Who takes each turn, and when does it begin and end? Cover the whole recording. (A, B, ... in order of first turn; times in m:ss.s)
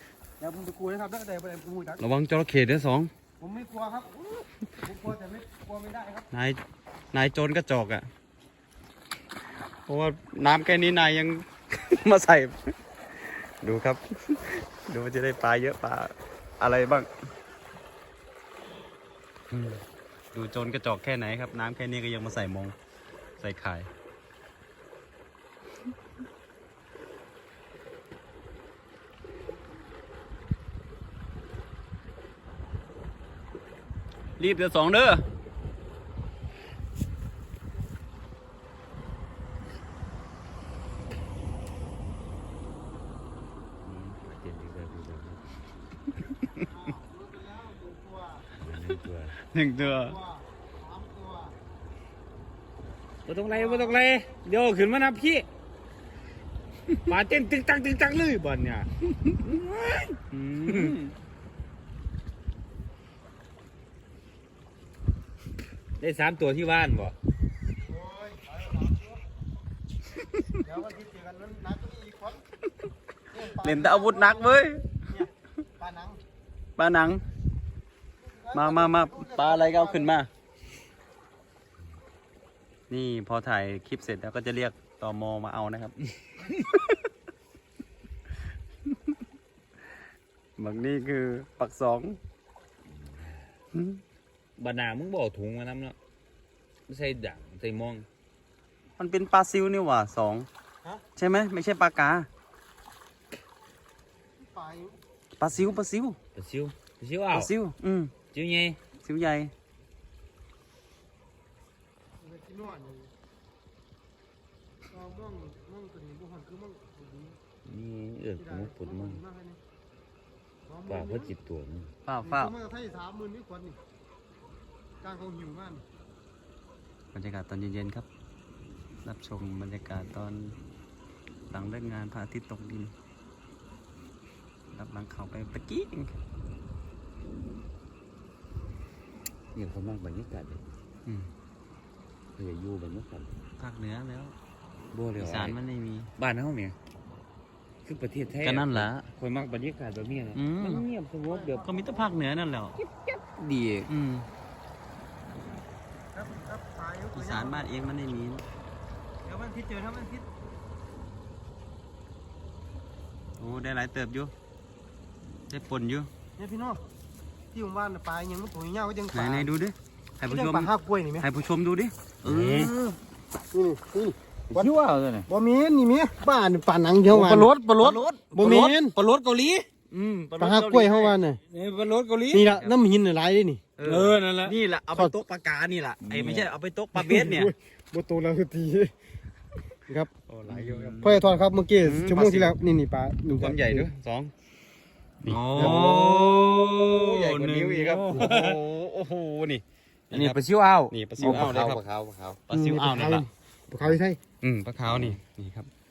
0:00.4-0:02.0 A
0:02.0-0:03.1 B
0:03.4-0:06.3 A
0:06.3-0:06.6 B
0:07.1-0:08.1 B
0:09.9-0:17.1 B
0:19.5-0:22.7 B
0:23.4-0:23.9 B
0:34.4-0:35.2 B
0:43.8-0:45.4 C
0:46.6-0:48.5 A
0:48.6-0:49.4 C
0:49.4-0:50.2 B
0:49.8-0:51.6 A
0:53.2-0:55.5 C
0:53.5-0:54.0 A
0:57.0-1:01.0 C
1:00.4-1:01.0 B
1:06.0-1:07.1 C
1:07.8-1:09.2 A
1:10.6-1:12.4 A
1:13.3-1:16.2 A
1:13.6-1:14.9 B
1:16.8-1:17.2 B
1:18.2-1:20.1 A
1:18.5-1:20.3 B
1:22.9-1:26.0 B
1:26.5-1:26.8 B
1:30.6-1:32.2 B
1:32.8-1:33.5 C
1:33.7-1:34.0 B
1:34.6-1:36.0 C
1:36.9-1:38.1 C
1:39.0-1:40.5 B
1:41.2-1:42.3 B
1:44.4-1:45.0 A
1:45.4-1:46.2 B
1:46.3-1:47.5 C
1:47.3-1:48.1 B
1:48.3-1:48.8 C
1:49.0-1:49.5 B
1:52.2-1:53.1 A
1:54.9-1:57.4 A
1:57.6-1:59.2 C
1:58.4-1:59.6 A
2:00.6-2:01.3 A
2:00.9-2:01.9 C
2:02.0-2:02.5 B
2:02.2-2:03.8 A
2:05.0-2:05.8 A
2:07.1-2:08.1 B
2:09.0-2:10.6 B
2:11.5-2:12.9 B
2:14.7-2:16.2 B
2:19.5-2:20.6 C
2:22.4-2:23.3 C
2:23.6-2:24.4 B
2:24.9-2:25.6 C
2:25.2-2:26.1 B
2:26.2-2:26.8 C
2:27.8-2:31.7 C
2:28.4-2:29.1 B
2:30.3-2:30.8 B
2:31.2-2:32.1 A
2:31.6-2:32.8 B
2:32.9-2:33.9 C
2:33.9-2:34.3 B
2:36.1-2:37.7 A
2:37.1-2:38.4 B
2:39.2-2:40.3 A
2:43.4-2:44.3 B
2:45.5-2:46.1 B
2:46.4-2:46.8 A
2:47.5-2:49.5 A
2:49.1-2:52.7 B
2:50.2-2:51.2 A
2:52.2-2:53.0 C
2:53.5-2:54.7 A
2:54.5-2:55.3 C
2:55.3-2:58.9 A
2:57.1-3:00.3 C
2:57.8-2:58.3 B
3:00.2-3:01.2 B
3:00.4-3:01.4 A
3:01.5-3:02.5 C
3:02.3-3:03.6 A
3:02.4-3:02.8 B
3:03.8-3:07.5 B
3:03.8-3:04.5 C
3:06.0-3:06.5 C
3:06.9-3:08.9 A
3:10.3-3:12.6 B
3:10.5-3:11.0 C
3:11.0-3:13.9 A
3:13.3-3:14.3 B
3:15.2-3:18.6 C
3:15.2-3:16.2 B
3:15.5-3:16.2 A
3:16.8-3:23.3 B
3:20.1-3:22.0 C
3:22.5-3:24.2 A
3:23.8-3:25.7 B
3:24.9-3:25.1 C